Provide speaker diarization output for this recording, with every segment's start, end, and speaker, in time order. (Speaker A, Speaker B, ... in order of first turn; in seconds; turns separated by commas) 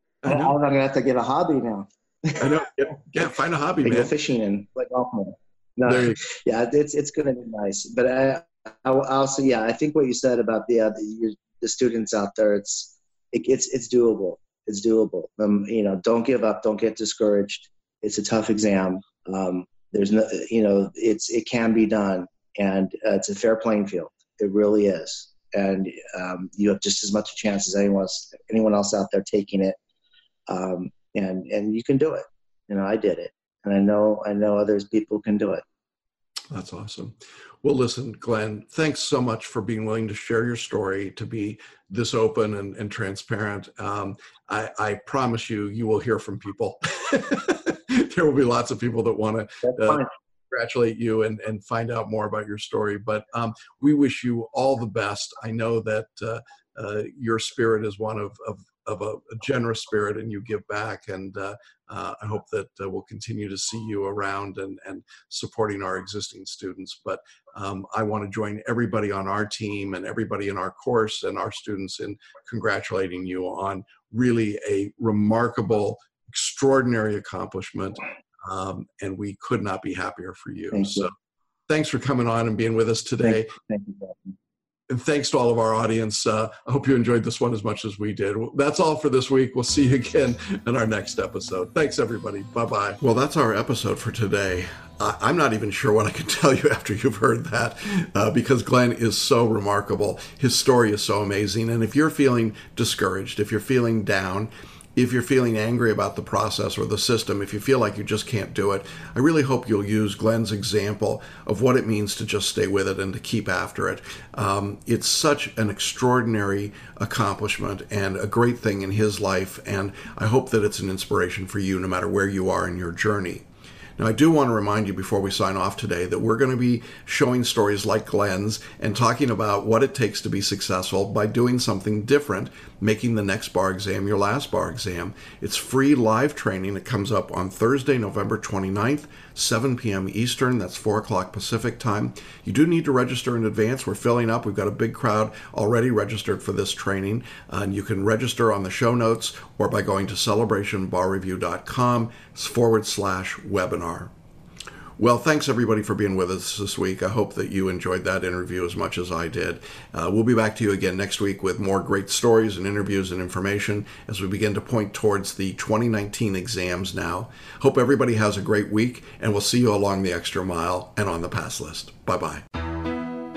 Speaker A: 0.2-0.6, Speaker B: 0.2-2.5, Speaker A: 2.4-4.1, Speaker B: 3.8-29.8, Speaker A: 5.9-6.2, Speaker B: 30.5-35.6, Speaker A: 36.5-81.1, Speaker B: 49.6-50.1, Speaker B: 80.7-81.1, Speaker A: 81.7-83.5, Speaker B: 83.2-84.3, Speaker A: 84.9-123.4, Speaker A: 124.0-154.1, Speaker A: 155.0-172.4